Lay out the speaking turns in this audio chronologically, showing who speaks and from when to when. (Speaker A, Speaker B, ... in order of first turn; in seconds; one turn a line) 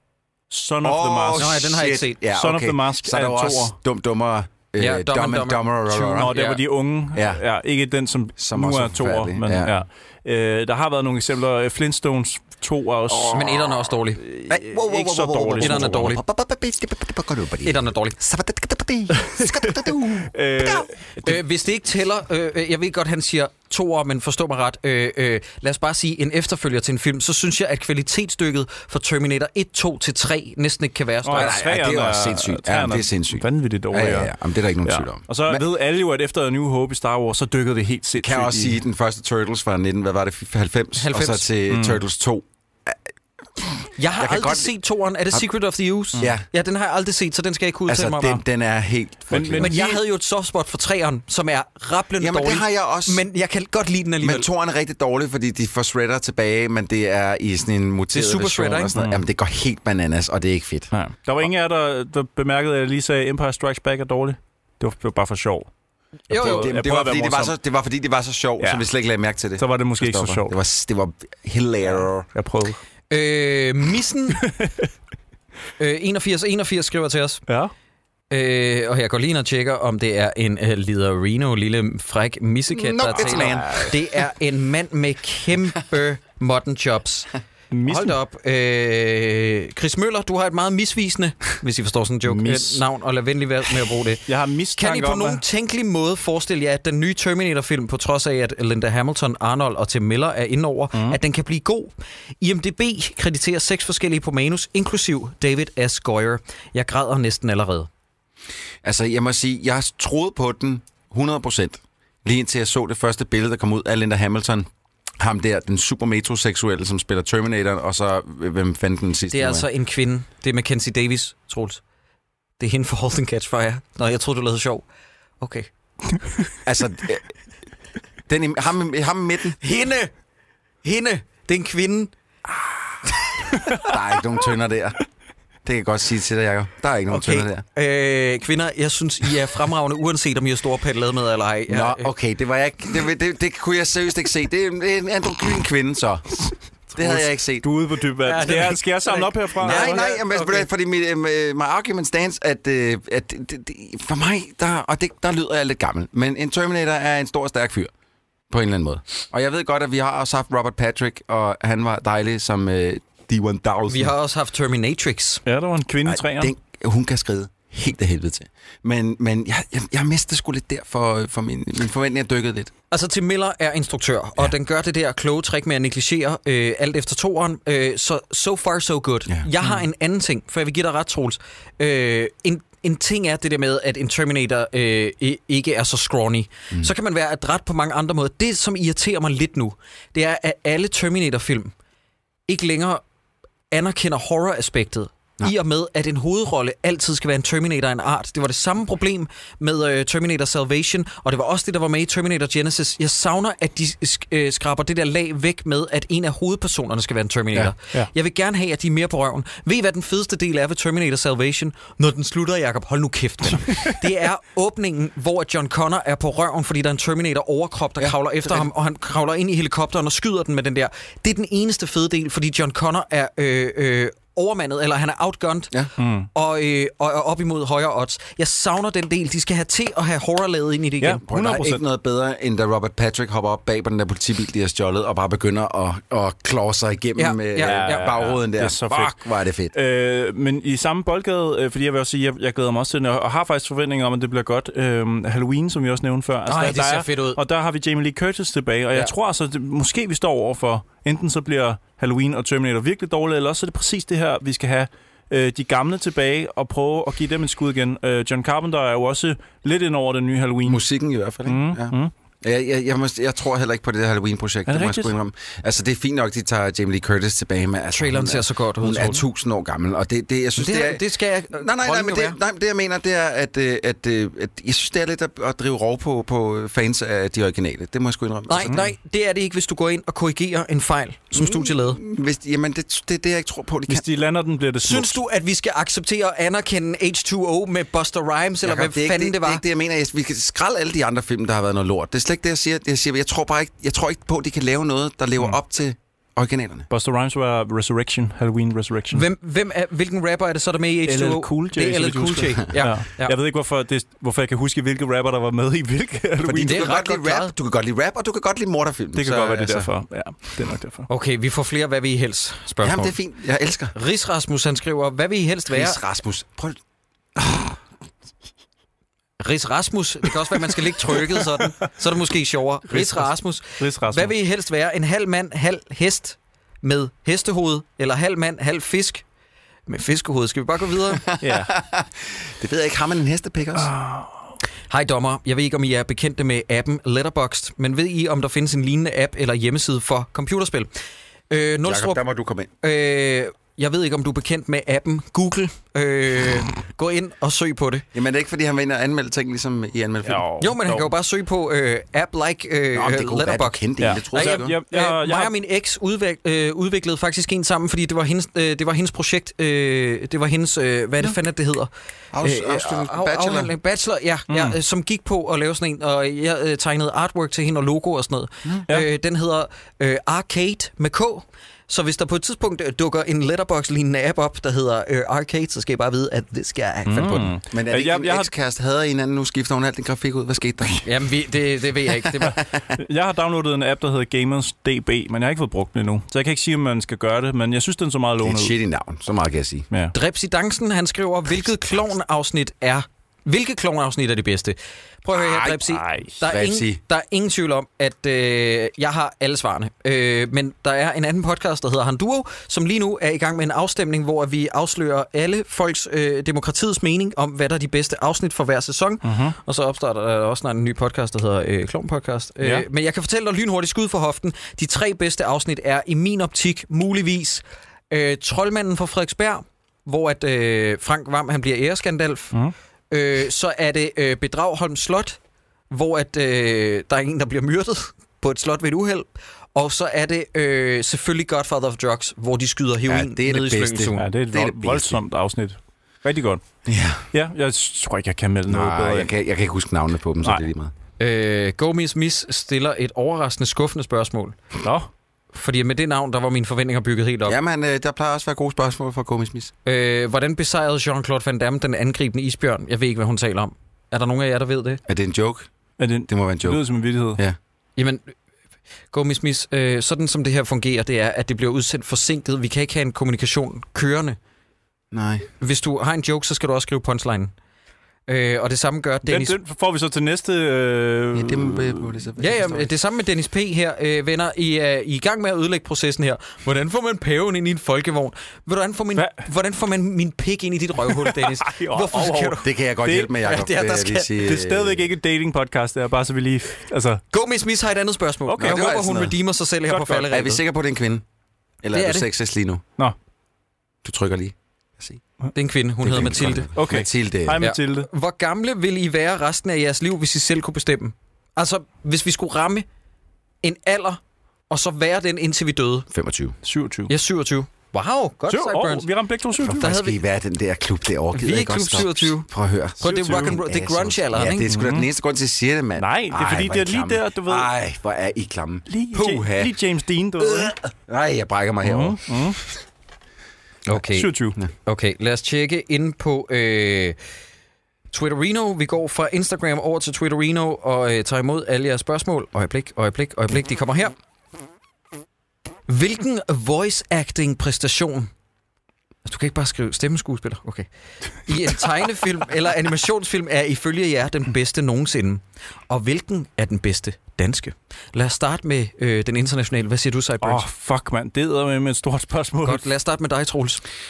Speaker A: 0.5-1.6
Speaker B: 0.8-6.3
Speaker C: 1.4-2.2
Speaker A: 2.3-3.8
Speaker C: 4.8-6.6
Speaker A: 6.2-13.5
Speaker B: 7.1-7.4
Speaker B: 8.4-9.8
Speaker B: 13.1-13.9
Speaker C: 13.3-14.2
Speaker A: 14.2-16.1
Speaker B: 14.5-20.8
Speaker C: 15.6-16.2
Speaker C: 17.6-18.2
Speaker A: 19.1-21.4
Speaker C: 21.2-31.6
Speaker A: 31.2-38.8
Speaker B: 31.3-35.6
Speaker B: 38.2-43.0
Speaker C: 41.0-41.5
Speaker A: 41.7-42.0
Speaker B: 43.6-44.7
Speaker C: 44.0-48.4
Speaker B: 46.2-46.5
Speaker B: 47.9-49.8
Speaker A: 49.3-50.0
Speaker C: 49.6-54.5
Speaker B: 52.2-53.2
Speaker B: 54.2-60.9
Speaker C: 58.1-58.9
Speaker A: 59.0-59.2
Speaker A: 60.9-65.7
Speaker C: 66.3-66.7
Speaker A: 66.3-67.5
Speaker B: 66.3-72.3
Speaker A: 68.6-68.9
Speaker A: 69.6-70.5
Speaker A: 72.3-72.8
Speaker C: 73.1-74.5
Speaker A: 74.4-74.9
Speaker C: 75.8-77.4
Speaker C: 78.3-87.3
Speaker B: 82.7-84.0
Speaker A: 83.2-83.8
Speaker A: 87.7-88.2
Speaker C: 87.9-94.2
Speaker A: 92.3-92.8
Speaker A: 94.3-95.4
Speaker C: 94.8-107.9
Speaker B: 108.8-114.7
Speaker B: 115.2-119.7
Speaker C: 119.3-121.8
Speaker C: 122.6-124.8
Speaker C: 125.4-125.7
Speaker B: 126.6-127.3
Speaker B: 128.3-129.6
Speaker C: 129.6-130.1
Speaker C: 130.8-132.1
Speaker B: 133.7-135.0
Speaker B: 135.7-137.6
Speaker C: 137.1-142.1
Speaker B: 141.7-147.7
Speaker A: 147.0-150.1
Speaker C: 148.2-150.6
Speaker B: 149.6-157.9
Speaker B: 158.5-164.1
Speaker C: 163.9-165.4
Speaker A: 165.5-166.5
Speaker B: 166.1-172.7
Speaker C: 172.9-191.7
Speaker C: 192.5-193.0
Speaker C: 193.7-225.7
Speaker B: 218.0-218.7
Speaker A: 226.0-226.3
Speaker C: 226.3-231.2
Speaker A: 231.0-231.8
Speaker B: 231.3-239.8
Speaker C: 237.2-238.1
Speaker A: 237.6-239.2
Speaker A: 239.7-260.8
Speaker C: 246.5-247.4
Speaker B: 260.6-278.8
Speaker A: 261.4-262.1
Speaker A: 264.7-265.1
Speaker C: 267.9-269.2
Speaker C: 270.6-272.4
Speaker C: 278.5-282.0
Speaker B: 281.3-284.1
Speaker A: 283.9-285.2
Speaker C: 284.8-289.6
Speaker B: 288.6-296.9
Speaker A: 296.9-299.2
Speaker C: 299.1-303.4
Speaker A: 301.1-306.9
Speaker B: 306.4-309.9
Speaker C: 306.6-307.5
Speaker A: 309.1-311.1
Speaker C: 311.1-313.2
Speaker B: 312.8-313.9
Speaker C: 313.9-316.0
Speaker B: 315.7-316.8
Speaker B: 317.4-317.8
Speaker C: 319.4-329.2
Speaker A: 322.9-324.3
Speaker C: 329.9-331.2
Speaker B: 331.1-333.9
Speaker A: 331.4-331.8
Speaker A: 333.8-334.5
Speaker C: 334.9-340.9
Speaker C: 341.5-342.2
Speaker B: 341.9-342.7
Speaker C: 342.8-348.1
Speaker B: 348.1-350.5
Speaker A: 350.2-351.1
Speaker C: 350.6-361.9
Speaker B: 352.9-354.8
Speaker A: 354.0-355.5
Speaker B: 362.3-363.7
Speaker C: 362.4-377.5
Speaker A: 364.5-364.8
Speaker A: 377.1-378.5
Speaker B: 377.3-381.1
Speaker C: 381.0-382.6
Speaker B: 382.4-383.0
Speaker A: 383.0-388.7
Speaker B: 388.4-389.9
Speaker C: 390.1-422.6
Speaker A: 395.4-396.4
Speaker B: 396.4-397.0
Speaker A: 409.2-409.6
Speaker C: 423.1-425.4
Speaker C: 425.9-434.2
Speaker B: 433.1-435.2
Speaker A: 434.2-436.6
Speaker B: 436.9-437.3
Speaker A: 437.3-439.3
Speaker B: 438.7-440.9
Speaker C: 441.2-444.6
Speaker A: 444.8-445.1
Speaker C: 445.5-447.6
Speaker B: 447.5-449.7
Speaker C: 449.9-455.0
Speaker B: 455.1-455.7
Speaker A: 456.0-457.4
Speaker B: 456.3-456.8
Speaker C: 458.0-458.3
Speaker C: 459.1-464.4
Speaker B: 465.1-465.5
Speaker C: 465.6-467.5
Speaker C: 468.3-469.6
Speaker A: 469.2-472.0
Speaker B: 471.3-472.9
Speaker C: 472.4-482.7
Speaker A: 481.1-483.3
Speaker B: 482.6-485.1
Speaker C: 483.4-484.3
Speaker A: 484.4-487.2
Speaker C: 487.3-490.6
Speaker A: 488.5-489.0
Speaker B: 488.6-489.3
Speaker A: 489.9-490.2
Speaker B: 490.2-491.2
Speaker B: 491.8-492.8
Speaker C: 491.9-492.3
Speaker B: 494.0-495.2
Speaker C: 495.5-496.7
Speaker B: 496.0-497.6
Speaker A: 496.8-498.1
Speaker C: 497.6-502.9
Speaker C: 503.6-506.1
Speaker B: 506.1-506.6
Speaker A: 506.6-507.1
Speaker C: 507.1-509.1
Speaker A: 508.5-509.9
Speaker B: 509.6-519.7
Speaker C: 509.7-510.2
Speaker C: 511.4-512.5
Speaker C: 513.0-514.7
Speaker A: 513.0-513.6
Speaker A: 514.7-515.1
Speaker A: 516.0-517.7
Speaker A: 518.9-520.8
Speaker B: 520.4-522.2
Speaker A: 521.8-522.6
Speaker C: 523.9-527.2
Speaker A: 524.1-524.6
Speaker C: 528.1-534.1
Speaker C: 535.9-538.3
Speaker C: 539.2-540.9
Speaker C: 541.4-550.6
Speaker A: 550.4-552.8
Speaker C: 552.6-553.8